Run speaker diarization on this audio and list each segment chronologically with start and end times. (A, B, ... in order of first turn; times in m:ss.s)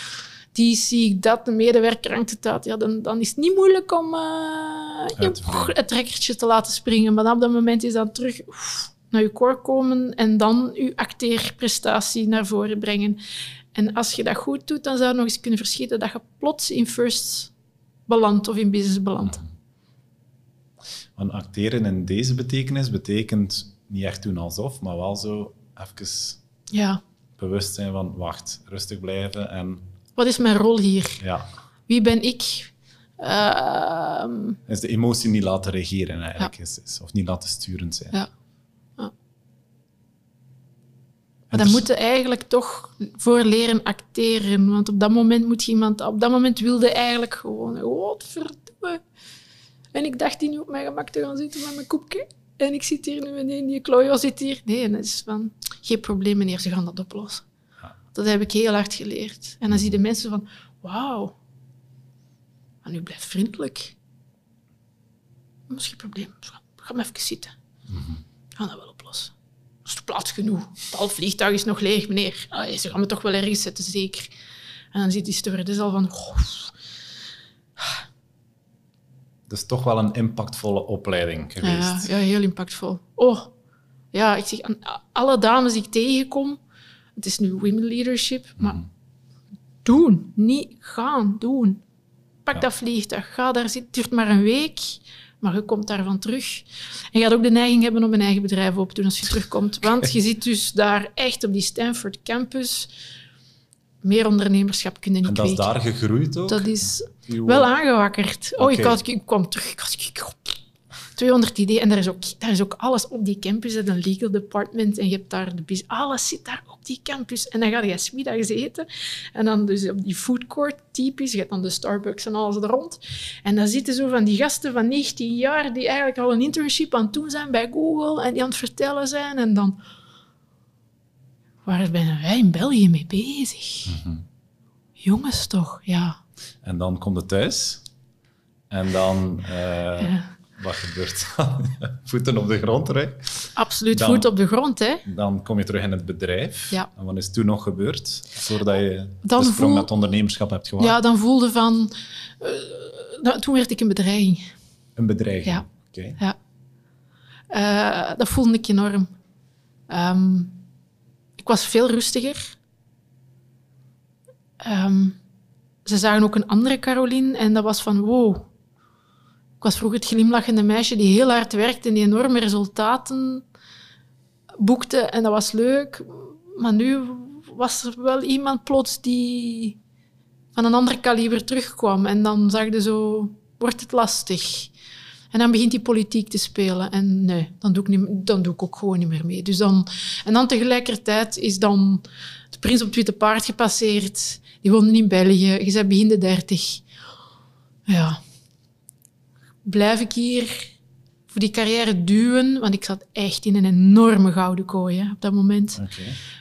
0:00.5-0:13.2 A
0:05.2-0:05.7 B
0:13.7-0:17.5 A
0:18.1-0:19.4 A
0:21.2-0:26.4 B
0:26.7-0:27.0 A
0:27.4-0:29.8 B
0:30.2-0:31.2 A
0:31.2-0:31.5 B
0:31.9-0:34.6 A
0:34.7-0:38.2 B
0:41.5-0:41.8 B
0:41.5-0:49.0 A
0:49.9-0:57.4 A
0:58.1-1:01.4 A
1:02.8-1:04.0 A
1:05.7-1:07.5 A
1:07.9-1:08.2 B
1:08.5-1:09.3 A
1:09.8-1:14.3 A
1:14.9-1:16.7 A
1:17.8-1:18.0 A
1:19.5-1:22.1 B
1:21.6-1:23.5 A
1:24.1-1:26.6 A
1:27.2-1:28.8 A
1:29.8-1:31.8 A
1:32.4-1:42.9 A
1:44.0-1:45.7 A
1:45.2-1:47.7 B
1:46.5-1:50.6 A
1:48.6-1:49.0 B
1:51.2-2:09.8 A
2:11.6-2:14.0 A
2:13.8-2:14.2 B
2:15.0-2:16.2 A
2:16.6-2:17.8 B
2:18.7-2:24.3 B
2:23.6-2:25.0 A
2:25.0-2:31.0 B
2:29.2-2:29.9 A
2:30.8-2:34.5 A
2:35.0-2:36.2 B
2:37.5-2:39.1 A
2:39.9-2:40.6 A
2:41.4-2:42.5 A
2:44.6-2:45.2 A
2:45.8-2:48.5 A
2:49.6-2:53.4 A
2:54.6-2:59.8 A
3:00.5-3:04.7 A
3:05.3-3:16.8 A
3:17.9-3:18.2 A
3:19.6-3:20.7 A
3:21.3-3:25.8 A
3:25.8-3:26.2 B